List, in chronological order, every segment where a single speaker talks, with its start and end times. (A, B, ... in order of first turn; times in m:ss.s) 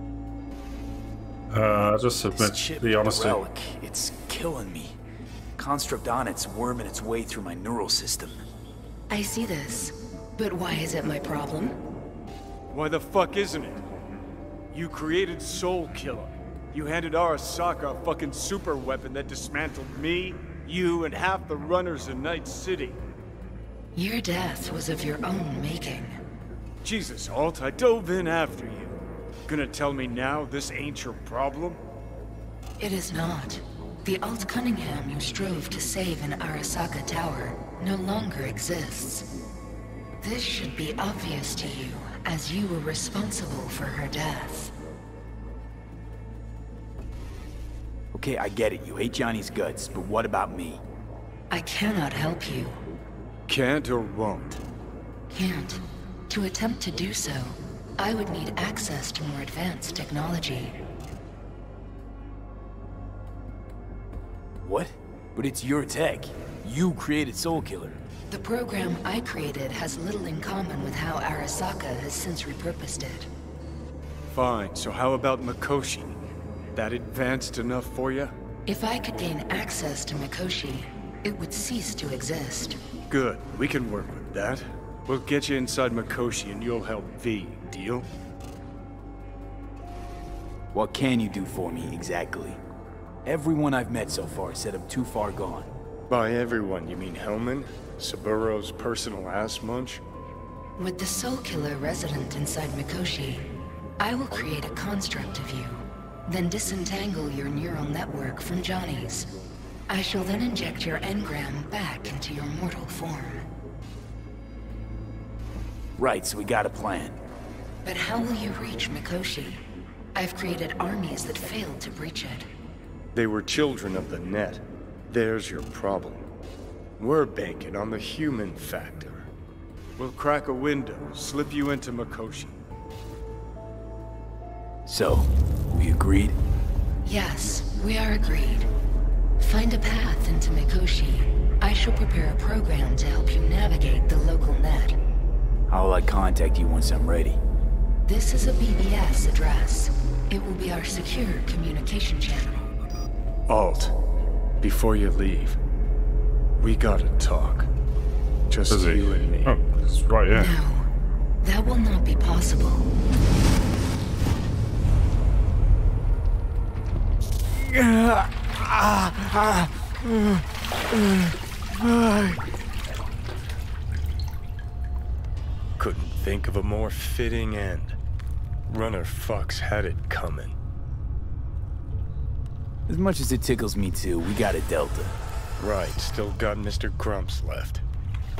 0:01.5-0:03.4 A
0:02.3-0:05.0 B
0:05.6-0:08.4 B
0:09.1-0:11.8 C
0:12.7-0:13.8 D
0:14.7-0:23.0 D
0:23.9-0:26.2 C
0:26.8-0:31.8 D
0:32.8-0:39.3 C
0:40.2-0:44.7 C
0:48.1-0:50.8 B
0:51.5-0:52.8 C
0:53.5-0:54.6 D
0:55.3-1:00.8 C
1:04.6-1:08.0 B
1:08.3-1:13.3 C
1:14.3-1:16.2 D
1:16.7-1:18.3 D
1:18.7-1:22.8 C
1:23.1-1:28.1 D
1:30.7-1:32.6 B
1:33.2-1:35.7 B
1:36.1-1:40.0 D
1:40.8-1:43.5 C
1:44.0-1:49.3 C
1:49.9-1:53.5 C
1:56.0-1:57.2 B
1:57.8-1:59.6 C
2:00.1-2:02.5 C
2:03.1-2:06.3 D
2:07.0-2:09.3 D
2:10.0-2:12.6 D
2:14.8-2:16.4 B
2:17.0-2:18.7 C
2:19.4-2:25.0 C
2:25.7-2:27.4 B
2:28.0-2:32.6 C
2:33.5-2:33.9 D
2:34.6-2:35.6 D
2:36.6-2:37.7 D
2:38.5-2:39.6 D
2:38.7-2:40.5 A
2:40.3-2:40.9 C
2:41.4-2:42.9 C
2:47.9-2:49.5 B
2:55.8-2:58.0 D
2:58.7-3:00.6 D
3:02.9-3:05.2 B
3:05.6-3:07.8 D